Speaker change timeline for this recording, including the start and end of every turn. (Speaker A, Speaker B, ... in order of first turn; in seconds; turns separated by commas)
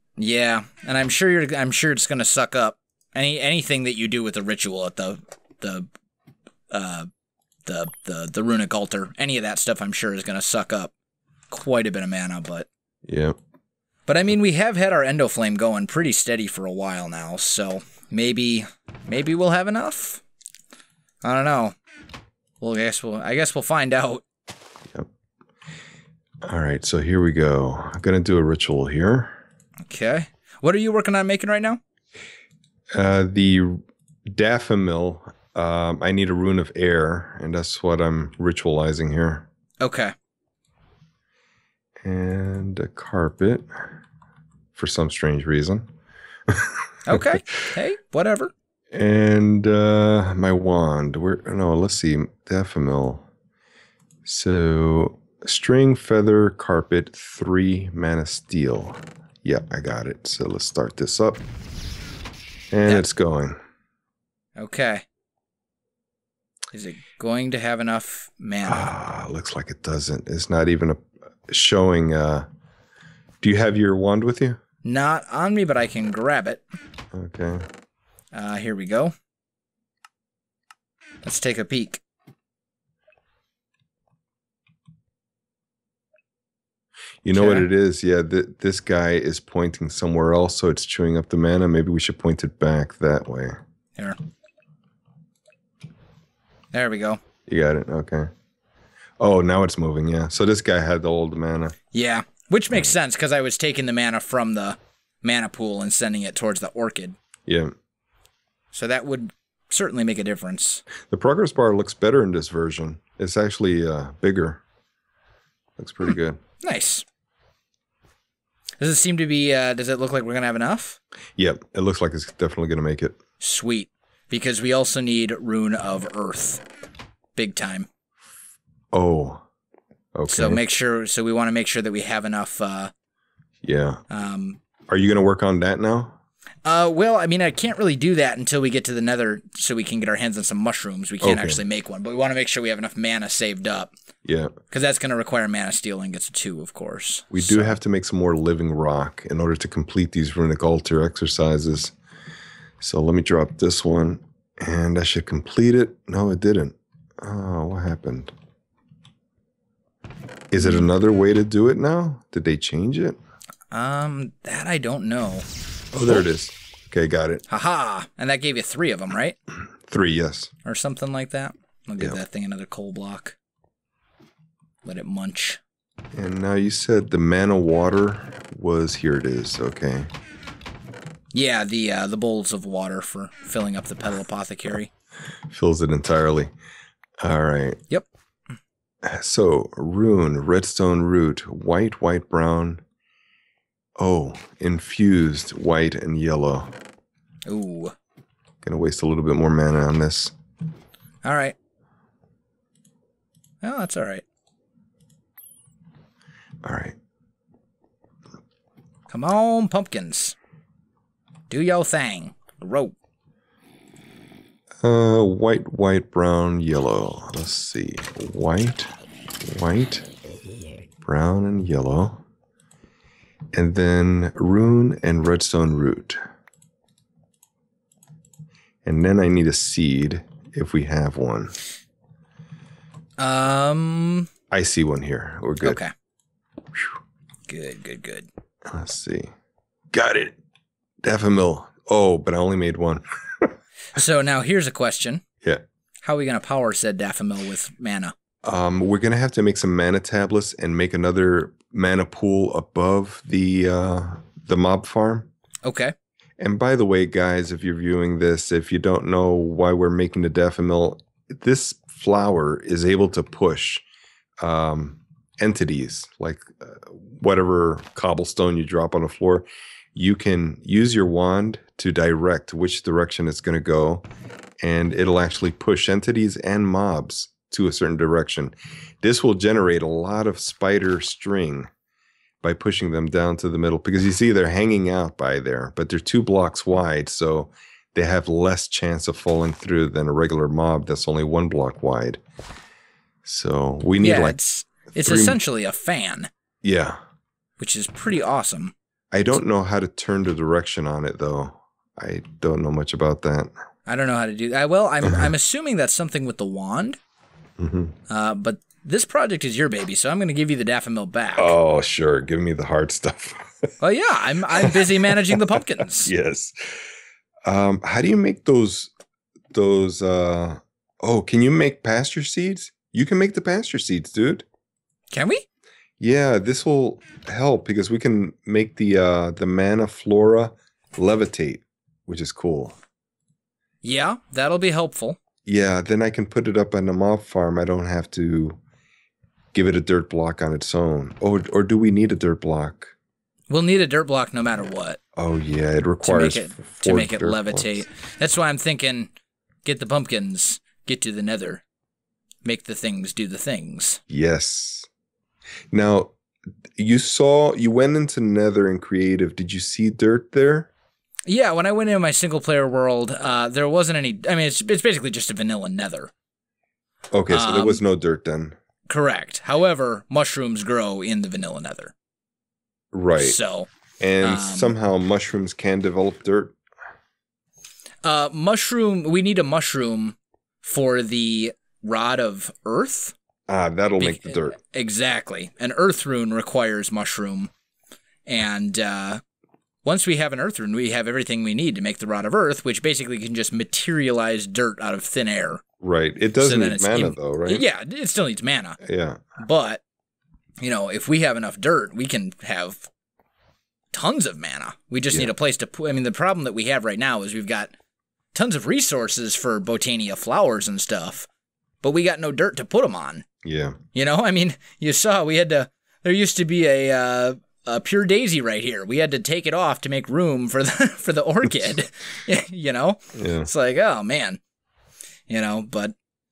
Speaker A: 0.2-5.9, Speaker A: 6.7-7.1, Speaker A: 7.7-10.9, Speaker A: 11.5-12.7, Speaker B: 13.1-13.3, Speaker A: 14.1-20.2, Speaker A: 21.2-21.8, Speaker A: 22.6-24.2, Speaker B: 26.4-29.4, Speaker A: 29.9-31.8, Speaker B: 32.9-39.5, Speaker A: 39.8-40.1, Speaker B: 42.0-43.8, Speaker B: 44.7-45.9, Speaker B: 46.5-47.2, Speaker A: 47.0-48.5, Speaker B: 48.9-53.2, Speaker B: 54.2-61.4, Speaker B: 62.7-63.6, Speaker A: 64.6-65.0, Speaker A: 66.7-68.9, Speaker B: 68.7-72.5, Speaker B: 73.4-74.6, Speaker A: 74.8-76.6, Speaker B: 77.1-77.6, Speaker A: 78.3-79.1, Speaker A: 81.2-82.0, Speaker B: 87.2-93.6, Speaker A: 87.3-87.7, Speaker A: 96.7-97.2, Speaker B: 97.5-98.3, Speaker B: 99.2-101.8, Speaker A: 101.9-107.2, Speaker B: 107.5-107.7, Speaker A: 108.7-110.8, Speaker B: 111.0-114.6, Speaker B: 115.8-116.4, Speaker A: 116.6-117.0, Speaker A: 118.8-121.0, Speaker B: 121.4-123.2, Speaker A: 123.4-126.6, Speaker A: 127.3-127.9, Speaker B: 128.9-129.4, Speaker B: 130.1-130.6, Speaker A: 130.3-132.9, Speaker B: 133.6-134.0, Speaker A: 134.1-134.6, Speaker B: 134.9-136.2, Speaker A: 136.6-143.9, Speaker B: 141.2-141.6, Speaker B: 144.2-144.5, Speaker A: 144.7-147.8, Speaker B: 147.3-151.9, Speaker B: 152.8-158.3, Speaker B: 160.5-163.2, Speaker A: 160.6-160.8, Speaker A: 163.7-165.5, Speaker B: 165.9-167.4, Speaker A: 167.5-169.4, Speaker B: 169.8-170.5, Speaker A: 170.6-173.4, Speaker A: 174.8-175.6, Speaker B: 176.1-180.1, Speaker A: 181.3-184.9, Speaker B: 185.5-186.5, Speaker B: 187.2-187.8, Speaker B: 189.0-192.8, Speaker B: 194.0-196.7, Speaker A: 197.4-197.9, Speaker B: 198.6-200.3, Speaker A: 201.2-201.5, Speaker A: 203.6-204.2, Speaker B: 206.6-207.0, Speaker A: 209.1-210.3, Speaker A: 211.5-212.9, Speaker B: 214.8-220.0, Speaker B: 221.0-222.2, Speaker B: 223.5-226.2, Speaker B: 228.8-231.5, Speaker A: 233.2-234.3, Speaker B: 234.5-235.8, Speaker A: 235.6-235.9, Speaker A: 237.5-238.3, Speaker B: 238.7-239.3, Speaker B: 239.9-240.4, Speaker B: 241.0-243.5, Speaker A: 243.9-245.2, Speaker A: 246.0-248.1, Speaker B: 248.4-255.3, Speaker A: 255.6-255.9, Speaker B: 256.4-263.8, Speaker B: 264.4-274.1, Speaker B: 274.6-281.7, Speaker B: 282.4-292.2, Speaker B: 293.2-294.4, Speaker A: 294.0-296.3, Speaker B: 294.9-295.4, Speaker B: 296.6-297.0, Speaker A: 297.6-298.7, Speaker B: 299.1-303.5, Speaker A: 303.9-307.0, Speaker B: 305.0-305.3, Speaker B: 307.6-307.9, Speaker A: 308.1-311.5, Speaker B: 311.4-313.7, Speaker A: 313.8-316.1, Speaker B: 314.5-316.8, Speaker B: 317.4-318.9, Speaker B: 319.5-324.4, Speaker A: 325.1-325.4, Speaker B: 326.0-332.8, Speaker A: 333.8-335.2, Speaker B: 335.4-338.6, Speaker B: 339.5-342.9, Speaker A: 343.5-345.0, Speaker B: 345.1-347.8, Speaker A: 346.0-349.1, Speaker A: 349.6-351.6, Speaker A: 352.4-354.0, Speaker B: 354.1-354.9, Speaker B: 355.7-356.1, Speaker B: 356.8-360.7, Speaker A: 361.2-366.1, Speaker B: 367.1-368.6, Speaker A: 367.3-367.8, Speaker A: 368.9-371.9, Speaker B: 372.9-373.4, Speaker A: 373.2-373.7, Speaker B: 374.0-376.6, Speaker A: 374.2-374.7, Speaker A: 378.0-383.1, Speaker B: 383.5-384.6, Speaker A: 384.0-387.5, Speaker A: 388.2-389.2, Speaker A: 389.8-395.6, Speaker B: 395.8-397.6, Speaker A: 396.4-398.8, Speaker B: 398.8-399.2, Speaker A: 399.4-399.8, Speaker A: 400.6-402.9, Speaker A: 403.9-407.7, Speaker A: 408.3-411.3, Speaker A: 411.8-413.2, Speaker B: 413.4-413.8, Speaker A: 413.9-424.4, Speaker B: 423.1-423.5, Speaker A: 425.3-425.9